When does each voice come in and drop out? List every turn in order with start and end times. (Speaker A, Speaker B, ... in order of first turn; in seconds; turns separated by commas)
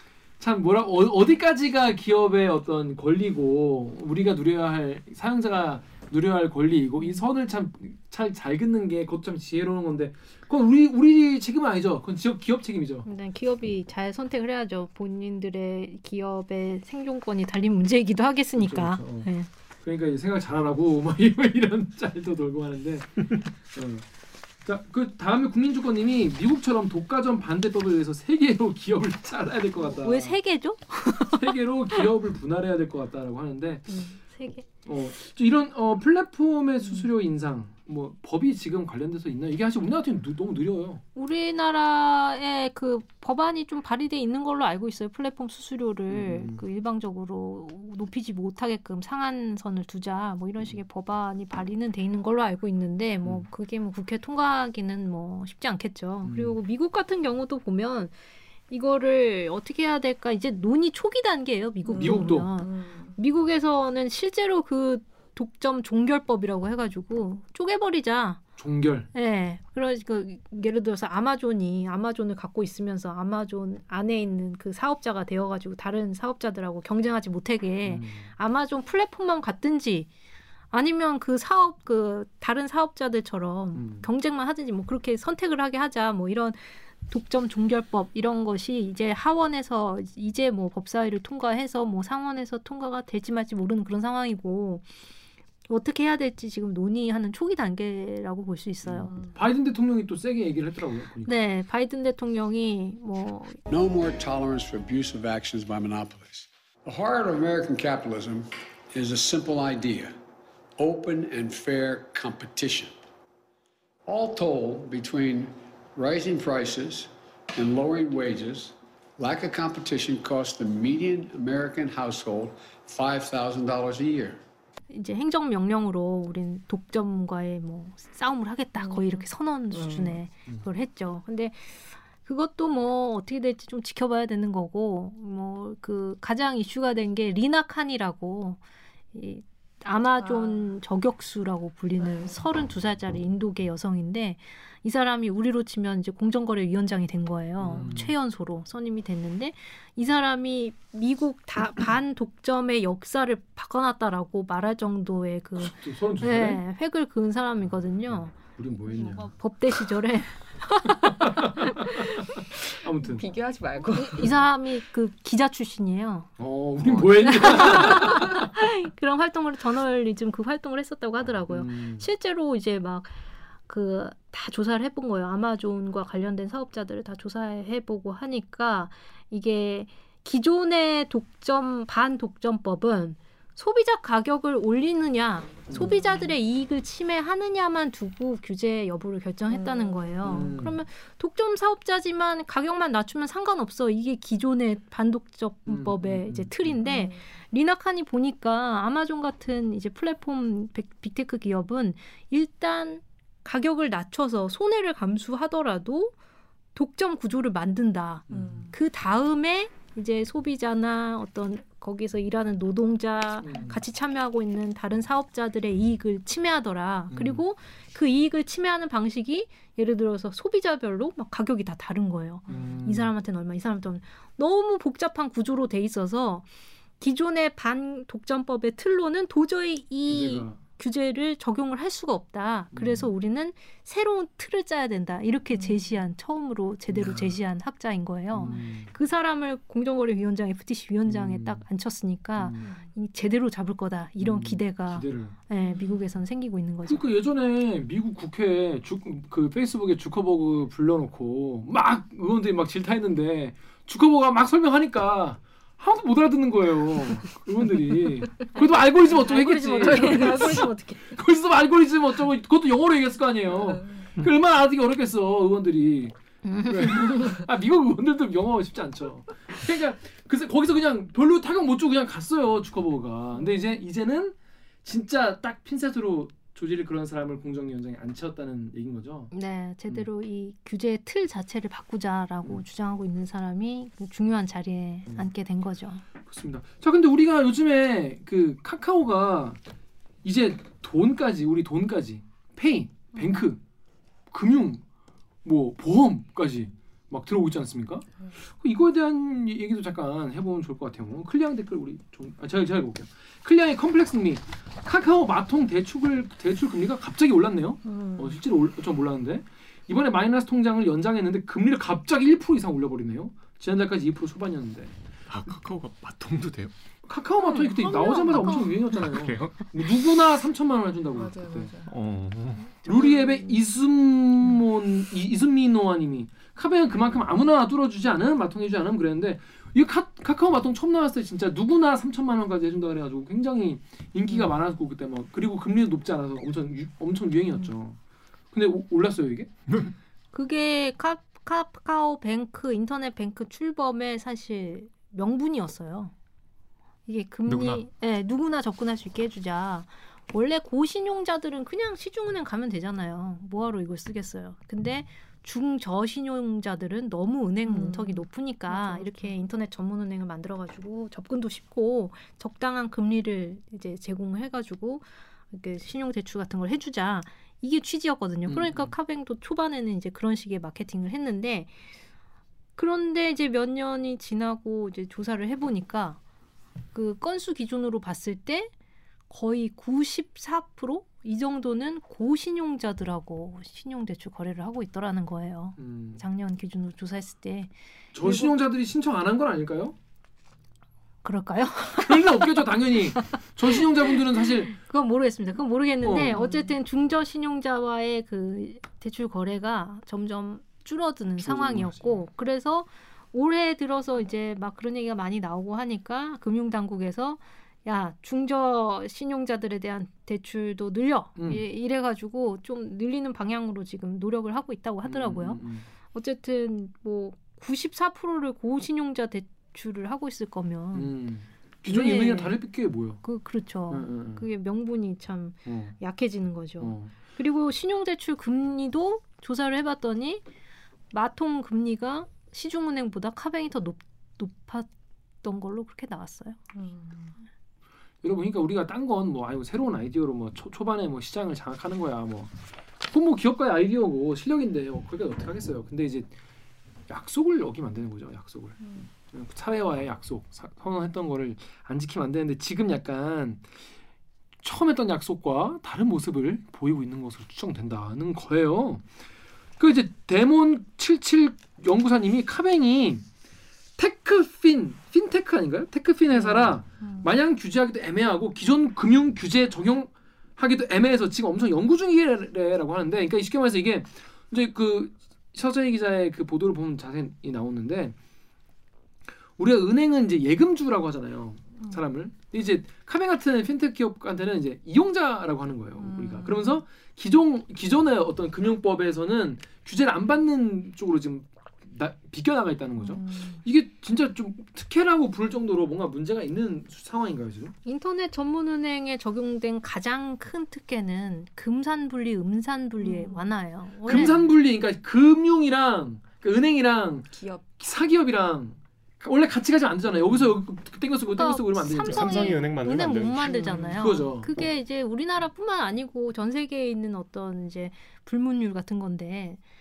Speaker A: 0.4-13.1, Speaker B: 13.0-19.5, Speaker A: 18.6-19.3, Speaker A: 19.8-24.0, Speaker A: 24.6-30.4, Speaker B: 30.0-32.0, Speaker A: 31.3-33.9, Speaker B: 33.9-34.6, Speaker A: 34.8-41.0, Speaker B: 41.1-58.1, Speaker A: 46.1-46.6, Speaker A: 56.2-56.5, Speaker B: 58.7-68.4, Speaker C: 61.9-63.2, Speaker A: 62.0-62.5, Speaker A: 68.6-69.1, Speaker B: 69.1-80.1, Speaker A: 77.8-78.3, Speaker B: 80.7-94.8, Speaker A: 83.7-84.1, Speaker B: 95.7-99.1, Speaker A: 98.8-101.3, Speaker C: 99.1-99.3, Speaker B: 101.2-103.6, Speaker D: 103.7-110.1, Speaker D: 110.8-113.0, Speaker D: 114.0-124.4, Speaker B: 124.9-138.6, Speaker C: 128.8-130.2, Speaker B: 139.1-158.4, Speaker C: 140.2-140.7, Speaker A: 147.6-148.1, Speaker A: 155.6-156.6, Speaker A: 157.6-159.3, Speaker B: 158.9-161.8, Speaker A: 161.1-163.2, Speaker C: 163.0-164.3, Speaker B: 163.9-166.3, Speaker A: 166.4-168.4, Speaker B: 167.3-206.1, Speaker A: 171.5-172.0, Speaker A: 185.7-186.0, Speaker C: 185.8-186.1, Speaker C: 189.5-190.3, Speaker A: 190.2-190.8, Speaker A: 195.7-196.8, Speaker C: 196.8-197.3, Speaker B: 206.7-226.4, Speaker A: 208.3-208.7, Speaker C: 208.3-208.7, Speaker A: 213.4-213.8, Speaker A: 217.1-217.4, Speaker C: 222.5-222.7, Speaker A: 222.5-223.1, Speaker B: 227.0-247.1, Speaker A: 230.1-230.6, Speaker A: 232.7-233.1, Speaker A: 236.9-237.3, Speaker A: 238.3-238.9, Speaker A: 241.1-241.6, Speaker A: 242.4-242.7, Speaker C: 242.6-242.9, Speaker A: 244.2-245.3, Speaker A: 246.9-266.1, Speaker B: 258.5-261.2, Speaker C: 259.8-260.7, Speaker C: 263.7-264.0, Speaker B: 266.4-267.3, Speaker A: 266.7-279.3, Speaker C: 273.4-273.6, Speaker B: 279.3-286.0, Speaker A: 286.2-289.6, Speaker A: 290.2-293.6, Speaker A: 294.3-294.8, Speaker A: 295.4-314.9, Speaker C: 307.9-308.2, Speaker E: 315.3-316.7, Speaker A: 317.1-321.7, Speaker C: 317.4-318.7, Speaker B: 317.8-318.8, Speaker E: 319.1-319.6, Speaker C: 321.1-321.9, Speaker E: 321.9-322.7, Speaker A: 322.9-338.0, Speaker C: 322.9-323.6, Speaker A: 338.5-339.5, Speaker E: 339.7-339.9, Speaker B: 340.3-346.1, Speaker B: 347.1-371.8, Speaker E: 347.5-347.8, Speaker C: 357.6-359.3, Speaker A: 368.5-368.9, Speaker B: 372.8-376.2, Speaker B: 376.9-378.7, Speaker B: 379.3-387.7, Speaker A: 385.8-386.2, Speaker A: 388.1-389.9, Speaker B: 388.2-388.5, Speaker B: 391.2-392.4, Speaker A: 392.0-394.7, Speaker B: 394.7-421.1, Speaker A: 396.0-396.4, Speaker C: 396.3-396.7, Speaker A: 401.4-402.2, Speaker A: 411.4-411.6, Speaker A: 415.1-415.9, Speaker A: 420.9-423.2, Speaker B: 421.9-422.6, Speaker B: 423.2-430.4, Speaker A: 423.9-424.4, Speaker A: 425.6-426.0, Speaker A: 426.8-427.1, Speaker B: 431.1-434.9, Speaker B: 435.4-436.6, Speaker C: 436.7-437.3, Speaker A: 438.2-442.5, Speaker A: 443.1-446.3, Speaker A: 447.1-453.7, Speaker A: 454.6-459.1, Speaker A: 459.8-463.2, Speaker A: 464.0-478.1, Speaker C: 466.4-467.2, Speaker A: 479.6-497.7, Speaker C: 486.0-486.8, Speaker C: 493.0-493.6, Speaker B: 497.8-504.4, Speaker C: 503.0-503.5, Speaker A: 504.1-512.5, Speaker C: 507.3-507.6, Speaker B: 511.3-519.6, Speaker E: 512.0-514.0, Speaker A: 513.7-514.6